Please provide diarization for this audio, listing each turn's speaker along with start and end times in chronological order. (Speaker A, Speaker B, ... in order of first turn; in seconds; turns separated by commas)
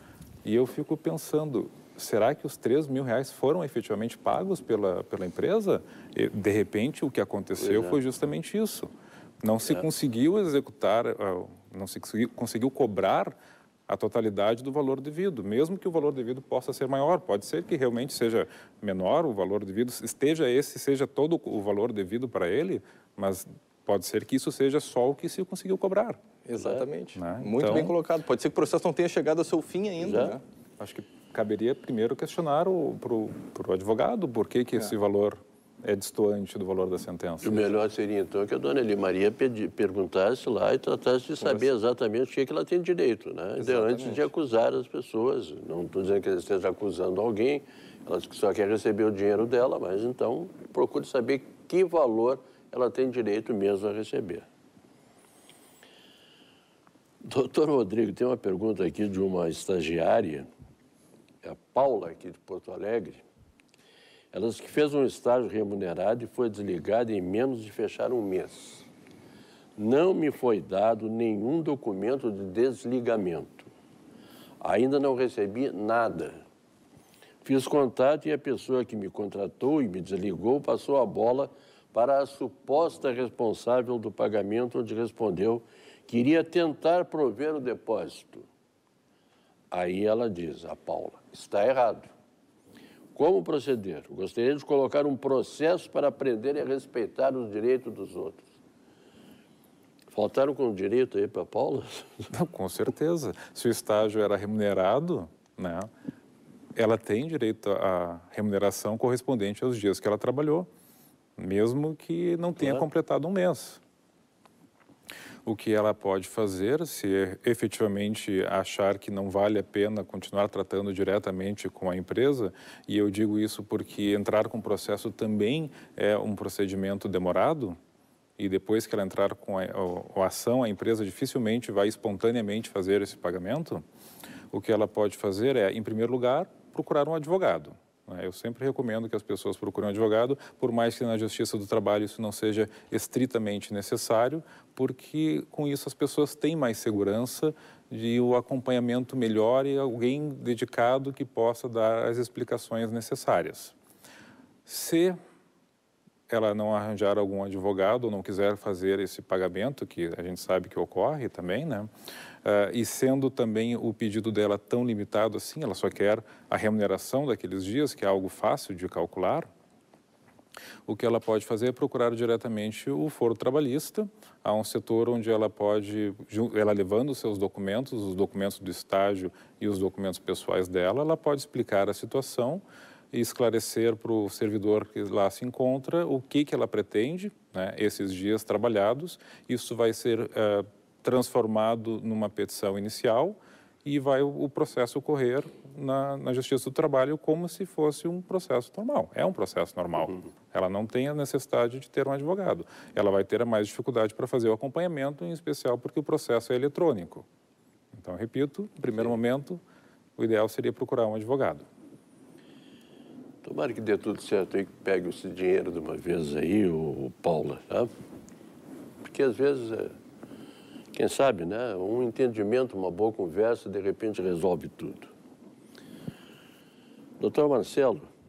Speaker A: 0.4-8.9, Speaker B: 7.6-8.0, Speaker A: 9.4-13.3, Speaker A: 13.9-26.2, Speaker C: 26.4-30.4, Speaker B: 26.5-26.9, Speaker A: 27.1-27.9, Speaker B: 30.0-30.4, Speaker A: 30.8-37.7, Speaker B: 37.4-54.5, Speaker C: 43.6-44.3, Speaker B: 57.2-60.5, Speaker B: 61.4-63.2, Speaker B: 64.3-68.9, Speaker B: 69.8-73.7, Speaker B: 74.6-76.4, Speaker B: 77.4-88.5, Speaker B: 89.7-92.1, Speaker B: 93.1-98.5, Speaker B: 100.1-102.3, Speaker A: 102.3-105.9, Speaker A: 106.8-110.7, Speaker A: 111.4-113.8, Speaker A: 115.4-127.8, Speaker A: 128.4-133.8, Speaker A: 134.5-153.7, Speaker A: 154.7-155.2, Speaker A: 156.3-161.9, Speaker A: 162.4-169.5, Speaker A: 170.8-207.2, Speaker A: 207.9-209.6, Speaker A: 210.2-211.7, Speaker B: 213.4-217.9, Speaker B: 219.0-219.9, Speaker B: 220.9-225.1, Speaker B: 227.2-228.1